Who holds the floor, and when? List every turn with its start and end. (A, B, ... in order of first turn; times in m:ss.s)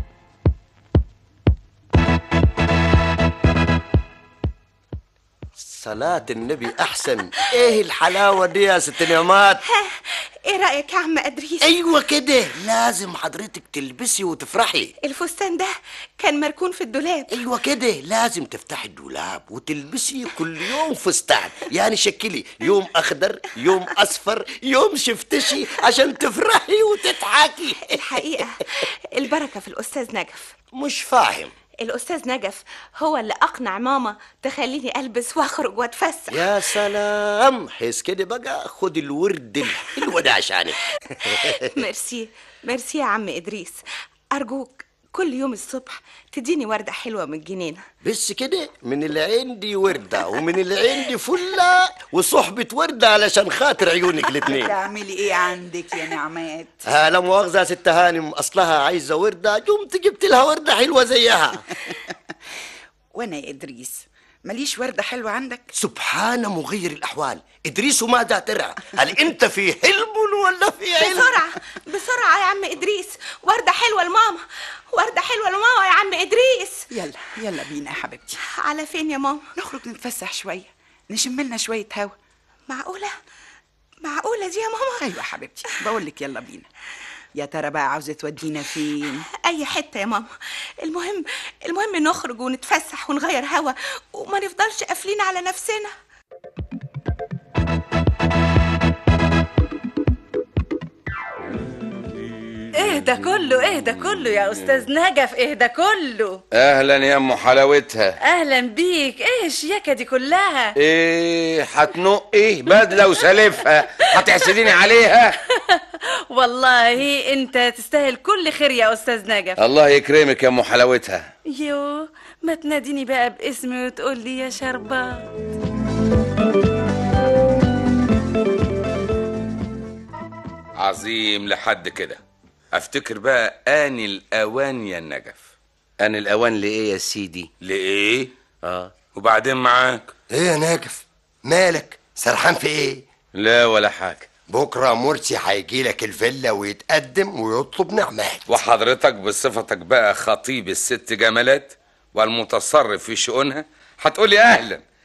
0:05.6-0:09.6 A
0:09.6-0:11.7 B
0:11.6-0:14.9 A
0:15.0-0:17.4 B
0:17.3-0:28.3 A
0:27.8-0:30.6 B
0:30.7-0:31.5 A
0:31.8-0:36.8 B
0:36.3-0:41.7 A
0:41.3-0:43.8 B
0:44.3-0:47.8 B
0:48.0-0:54.7 A
0:54.4-0:56.8 C
0:56.9-1:01.6 A
1:03.1-1:05.7 C
1:05.8-1:11.3 A
1:11.0-1:16.8 B
1:16.9-1:18.4 C
1:18.5-1:19.4 B
1:19.6-1:22.1 C
1:22.7-1:23.1 B
1:24.0-1:25.0 B
1:25.0-1:26.7 C
1:27.3-1:29.2 C
1:29.4-1:30.3 B
1:30.8-1:35.9 B
1:41.8-1:44.8 D
1:42.8-1:46.4 E
1:46.5-1:48.2 D
1:48.2-1:50.7 E
1:50.8-1:55.4 D
1:55.5-1:59.6 E
1:59.6-2:01.3 D
2:01.5-2:05.2 E
2:10.8-2:12.2 F
2:12.7-2:15.5 F
2:16.0-2:17.5 D
2:17.6-2:18.3 F
2:18.6-2:18.9 D
2:19.1-2:20.1 F
2:20.3-2:23.0 G
2:23.3-2:24.3 D
2:24.5-2:28.4 G
2:28.5-2:34.8 F